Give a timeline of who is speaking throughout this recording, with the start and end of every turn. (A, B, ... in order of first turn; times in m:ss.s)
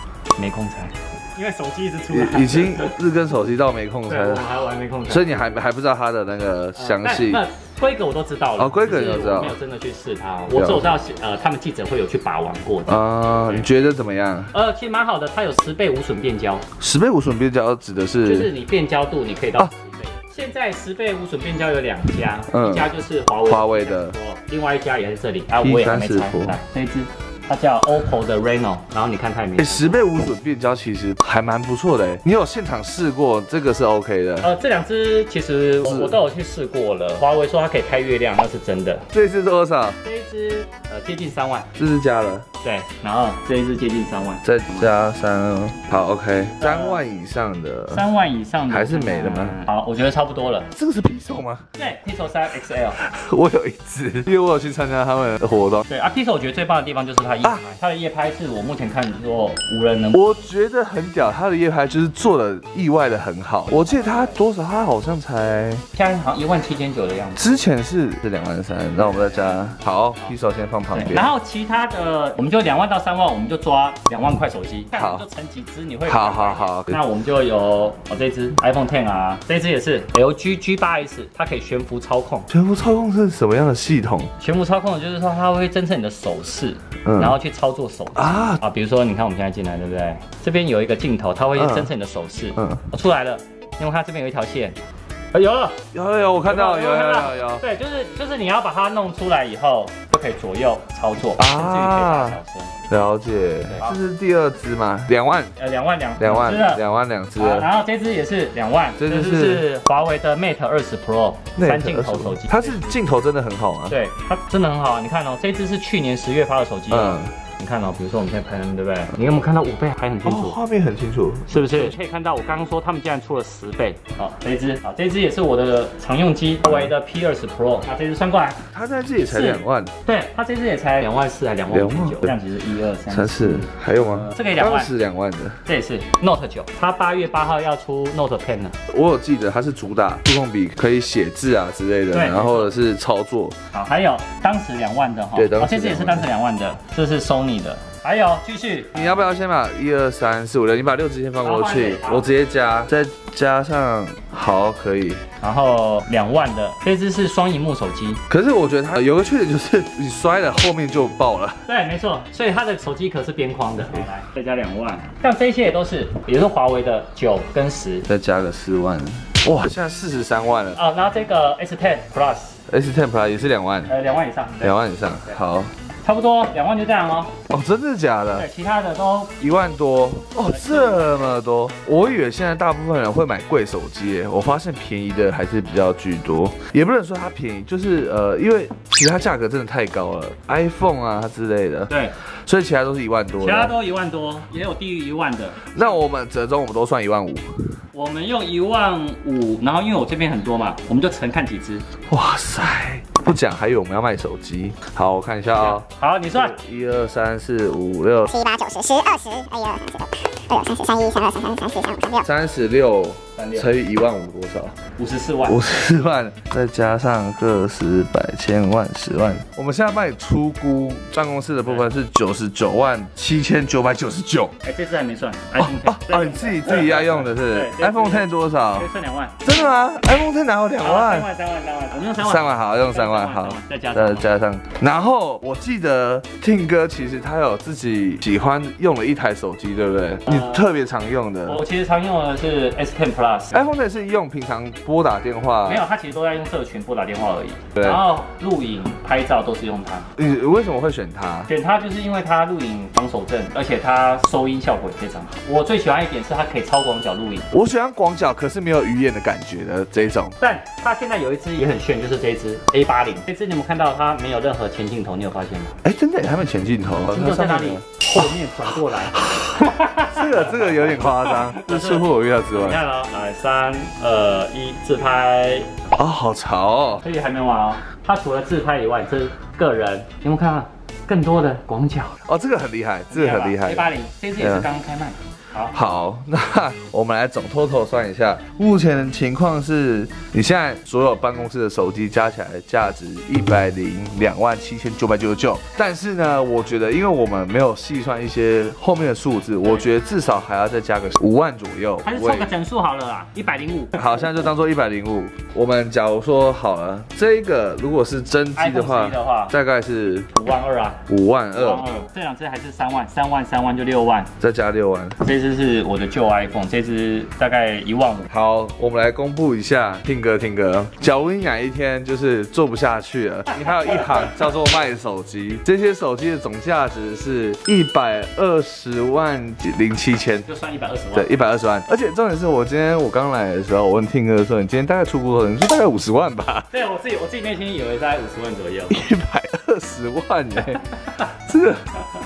0:00.4-0:03.0 A
0:02.1-0:04.5 B
0:04.1-0:05.5 A
0:05.1-0:07.4 B
0:06.8-0:13.7 A
0:08.6-0:09.5 B
0:10.5-0:10.9 B
0:12.9-0:14.5 B
0:14.5-0:16.6 A
0:16.8-0:18.5 B
0:18.2-0:30.0 A
0:22.5-0:22.9 B
0:23.4-0:24.1 B
0:25.6-0:26.6 B
0:29.6-0:34.5 B
0:34.4-0:39.1 A
0:35.8-0:36.2 B
0:39.1-0:40.0 B
0:40.0-0:41.7 A
0:41.8-0:42.4 B
0:42.6-0:45.1 A
0:44.4-0:48.0 B
0:46.4-0:47.0 A
0:47.9-0:50.7 A
0:48.7-0:49.6 B
0:50.7-0:51.6 B
0:51.8-0:53.0 A
0:53.0-0:55.8 B
0:55.9-1:00.2 A
1:00.1-1:05.8 B
1:03.7-1:04.4 A
1:05.9-1:07.6 A
1:07.4-1:11.3 B
1:09.0-1:10.3 A
1:10.9-1:22.5 A
1:14.9-1:15.2 B
1:16.0-1:17.0 B
1:22.5-1:24.3 B
1:24.4-1:34.8 A
1:27.0-1:27.4 B
1:28.2-1:28.6 B
1:31.6-1:31.9 B
1:32.6-1:32.8 B
1:35.3-1:35.8 A
1:35.9-1:37.6 B
1:36.4-1:42.8 A
1:41.4-1:42.4 B
1:42.9-1:45.5 B
1:43.7-1:44.0 A
1:45.6-1:46.8 A
1:46.2-1:47.7 B
1:47.4-1:53.0 A
1:49.0-1:49.6 B
1:51.6-1:54.0 B
1:53.9-2:00.6 A
1:56.9-1:57.3 B
2:00.2-2:01.9 B
2:01.5-2:08.6 A
2:06.6-2:06.9 B
2:08.7-2:09.9 B
2:09.3-2:14.9 A
2:11.7-2:12.4 B
2:13.1-2:15.6 B
2:15.6-2:18.7 A
2:18.9-2:23.6 B
2:22.1-2:22.7 A
2:23.7-2:29.0 A
2:25.3-2:26.3 B
2:28.9-2:35.2 B
2:31.4-2:32.3 A
2:35.4-2:38.2 A
2:38.3-2:41.6 B
2:41.7-2:48.1 A
2:48.1-2:50.8 B
2:50.7-2:52.6 A
2:52.7-2:53.9 B
2:53.9-2:54.7 A
2:54.6-2:55.7 B
2:56.0-2:57.4 A
2:57.5-2:58.5 B
2:58.3-2:59.3 A
2:59.4-3:11.9 B
3:00.4-3:01.3 A
3:11.9-3:12.1 A
3:12.4-3:13.7 B
3:13.4-3:16.0 A
3:15.7-3:17.4 B
3:17.9-3:21.8 A
3:22.1-3:28.6 B
3:25.5-3:26.5 A
3:28.5-3:32.2 C
3:32.1-3:34.8 B
3:33.4-3:33.7 A
3:35.0-3:35.6 A
3:35.4-3:44.5 B
3:44.6-3:49.8 A
3:45.6-3:48.9 B
3:49.4-3:51.3 B
3:50.8-3:54.3 A
3:52.2-4:01.6 B
4:00.2-4:00.7 A
4:01.5-4:03.6 A
4:03.5-4:05.8 B
4:05.6-4:10.1 A
4:07.7-4:08.0 B
4:10.2-4:11.5 B
4:11.5-4:17.5 A
4:17.5-4:20.4 B
4:20.4-4:25.8 A
4:25.8-4:32.8 B
4:27.1-4:35.8 A
4:36.0-4:37.0 B
4:37.0-4:42.2 A
4:42.2-4:44.7 B
4:43.1-4:45.8 A
4:45.7-5:02.5 B
4:59.6-4:59.9 A
5:02.0-5:04.0 A
5:04.0-5:10.3 B
5:08.6-5:09.5 A
5:10.3-5:14.3 A
5:11.1-5:11.8 B
5:14.4-5:15.2 B
5:15.2-5:18.3 A
5:18.3-5:30.4 B
5:30.4-5:31.4 A
5:31.1-5:36.7 B
5:36.7-5:39.0 A
5:38.9-5:41.8 B